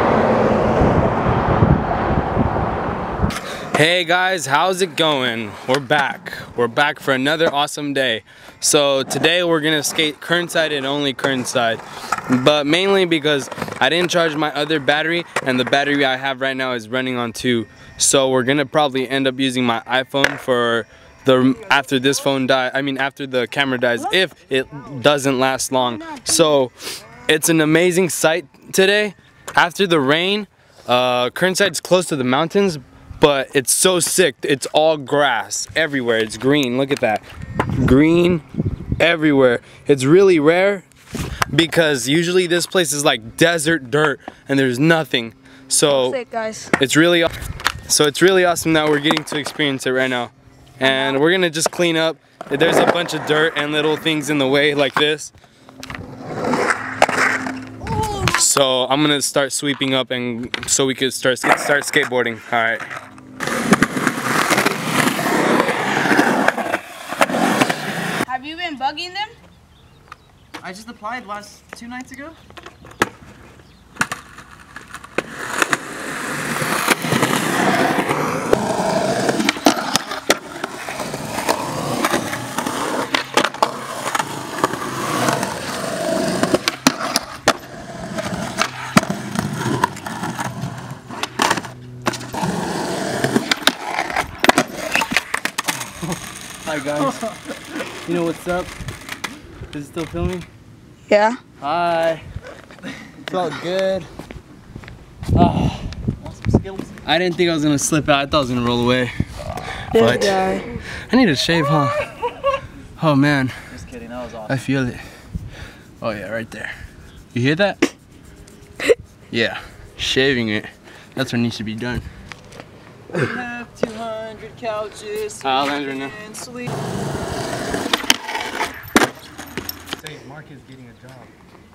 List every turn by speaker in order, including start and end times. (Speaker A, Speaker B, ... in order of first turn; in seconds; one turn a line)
Speaker A: 3.7-38.4
Speaker B: 25.8-26.6
Speaker A: 39.0-40.9
Speaker A: 41.5-46.2
Speaker B: 45.9-46.7
Speaker A: 46.8-47.3
Speaker A: 47.9-55.3
Speaker B: 50.8-51.2
Speaker B: 57.8-58.5
Speaker A: 58.4-62.9
Speaker B: 68.3-69.3
Speaker C: 70.6-72.4
Speaker A: 96.6-97.2
Speaker C: 97.0-97.4
Speaker A: 98.0-98.7
Speaker A: 99.7-100.5
Speaker B: 101.1-101.4
Speaker A: 101.6-102.2
Speaker A: 103.3-104.1
Speaker A: 105.3-105.8
Speaker C: 106.2-107.0
Speaker A: 107.0-109.1
Speaker A: 109.9-110.5
Speaker B: 109.9-110.7
Speaker A: 111.1-112.1
Speaker A: 113.0-113.6
Speaker C: 113.7-114.7
Speaker A: 114.5-115.0
Speaker A: 116.0-116.7
Speaker A: 117.3-117.8
Speaker A: 119.3-122.0
Speaker C: 123.1-126.7
Speaker A: 125.4-126.2
Speaker A: 129.9-131.3